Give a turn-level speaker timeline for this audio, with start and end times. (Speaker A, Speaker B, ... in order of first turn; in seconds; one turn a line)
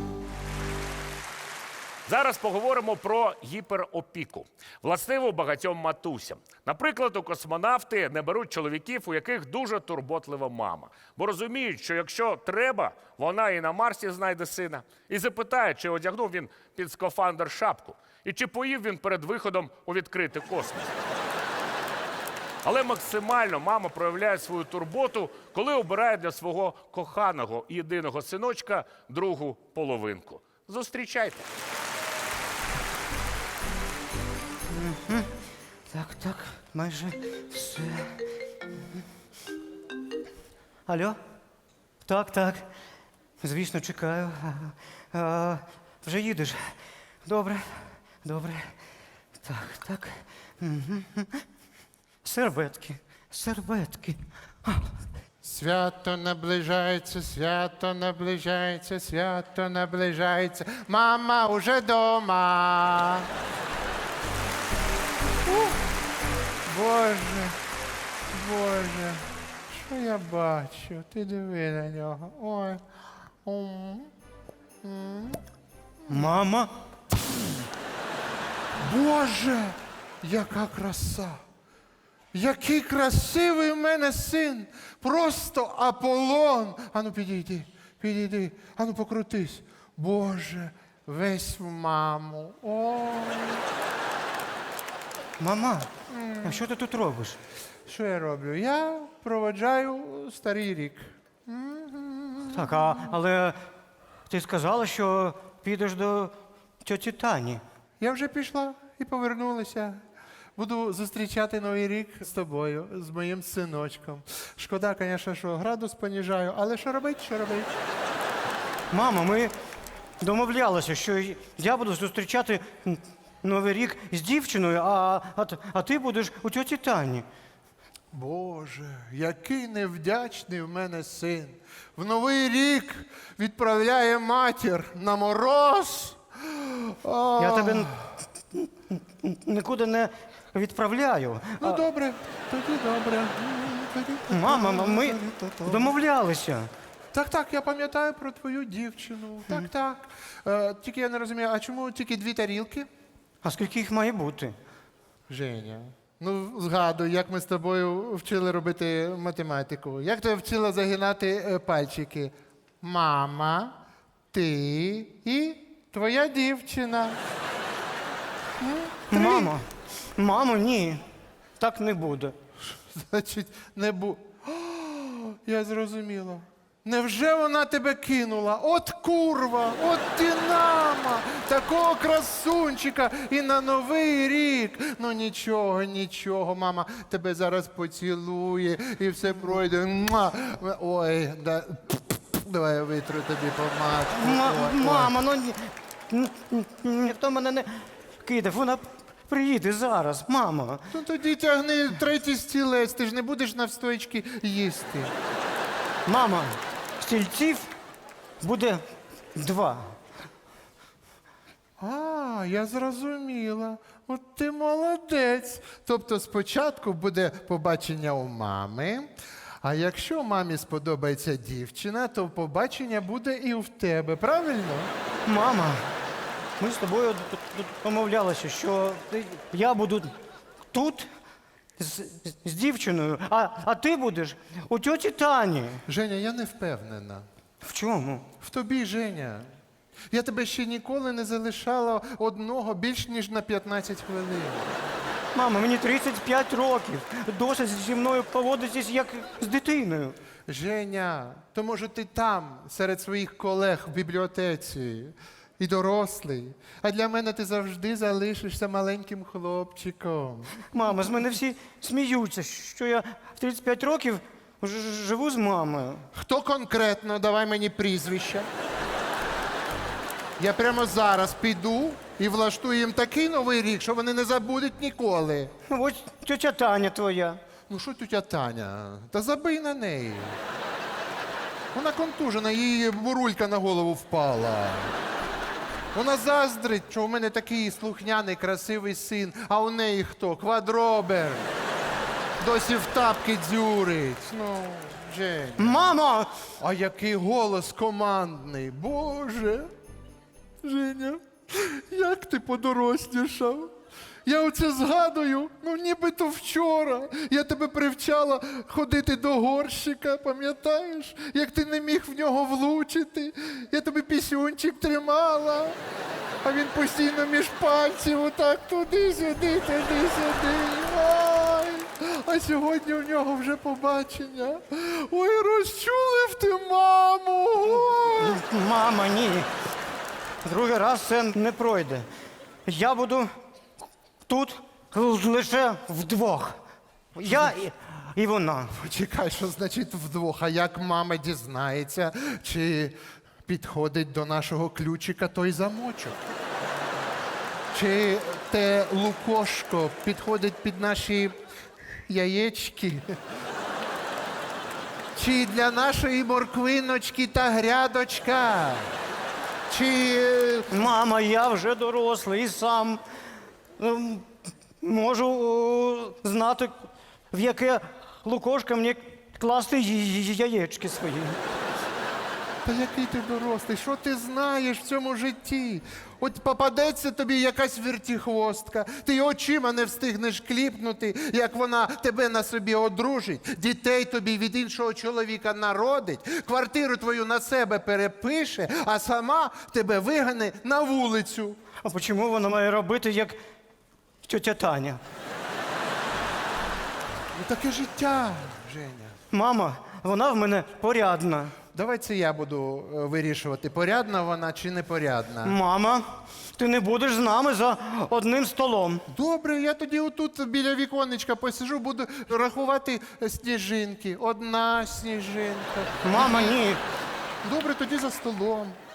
Speaker A: 2.1-20.9
Speaker A: 22.6-31.4
Speaker B: 34.7-35.3
Speaker B: 35.9-38.1
Speaker B: 40.9-41.2
Speaker B: 42.0-42.7
Speaker B: 43.4-46.7
Speaker B: 47.2-48.7
Speaker B: 49.4-51.4
Speaker B: 52.2-54.9
Speaker C: 55.4-63.3
Speaker C: 65.4-65.8
Speaker C: 66.6-67.6
Speaker C: 68.3-72.8
Speaker C: 73.4-74.1
Speaker C: 74.8-75.4
Speaker B: 76.1-76.7
Speaker C: 78.8-81.4
Speaker C: 82.3-93.6
Speaker B: 95.4-95.9
Speaker C: 96.1-96.7
Speaker B: 96.4-97.4
Speaker C: 97.8-103.1
Speaker B: 102.5-103.6
Speaker B: 104.3-107.6
Speaker C: 108.0-110.0
Speaker C: 110.5-117.8
Speaker B: 118.9-119.5
Speaker B: 120.2-127.2
Speaker C: 128.1-138.1
Speaker B: 137.4-137.9
Speaker B: 138.5-141.8
Speaker C: 141.6-145.9
Speaker B: 144.3-146.7
Speaker C: 147.1-152.9
Speaker B: 153.4-154.6
Speaker C: 155.3-163.8
Speaker C: 164.3-167.2
Speaker C: 168.6-169.6
Speaker B: 169.1-171.0
Speaker B: 171.6-172.3
Speaker C: 172.6-195.1
Speaker B: 194.1-200.9
Speaker C: 200.9-205.1
Speaker B: 206.1-207.7
Speaker B: 208.4-208.8
Speaker B: 209.3-209.9
Speaker C: 211.8-224.9
Speaker B: 225.2-225.8
Speaker B: 226.6-230.1
Speaker B: 230.7-231.1
Speaker B: 231.8-235.8
Speaker C: 235.9-237.2
Speaker B: 237.6-238.3
Speaker C: 238.4-239.5
Speaker C: 240.1-244.7
Speaker B: 245.3-250.2
Speaker C: 250.5-260.5
Speaker B: 260.7-266.1
Speaker C: 266.1-268.5
Speaker C: 270.4-275.5
Speaker B: 275.7-277.4
Speaker C: 277.7-280.4
Speaker C: 281.7-284.9
Speaker C: 285.9-291.5
Speaker C: 292.4-296.0
Speaker B: 295.6-296.3
Speaker C: 296.6-299.7
Speaker C: 300.6-303.7
Speaker C: 304.2-315.8
Speaker C: 316.4-328.4
Speaker B: 328.0-329.5
Speaker B: 330.4-332.1
Speaker B: 332.6-333.3
Speaker B: 334.3-336.6
Speaker B: 337.1-338.7
Speaker C: 337.2-337.5
Speaker C: 338.7-346.2
Speaker C: 347.7-351.4
Speaker C: 352.1-353.1
Speaker C: 355.1-358.9
Speaker C: 359.7-360.9
Speaker B: 360.7-363.0
Speaker B: 363.8-364.3
Speaker B: 364.8-366.7
Speaker B: 367.3-371.4
Speaker C: 372.6-391.6
Speaker B: 391.8-393.4
Speaker B: 394.2-395.0
Speaker C: 397.3-399.2
Speaker B: 399.3-401.6
Speaker C: 401.7-405.6
Speaker B: 405.4-409.0
Speaker C: 409.1-416.5
Speaker B: 416.0-416.8
Speaker C: 417.4-418.8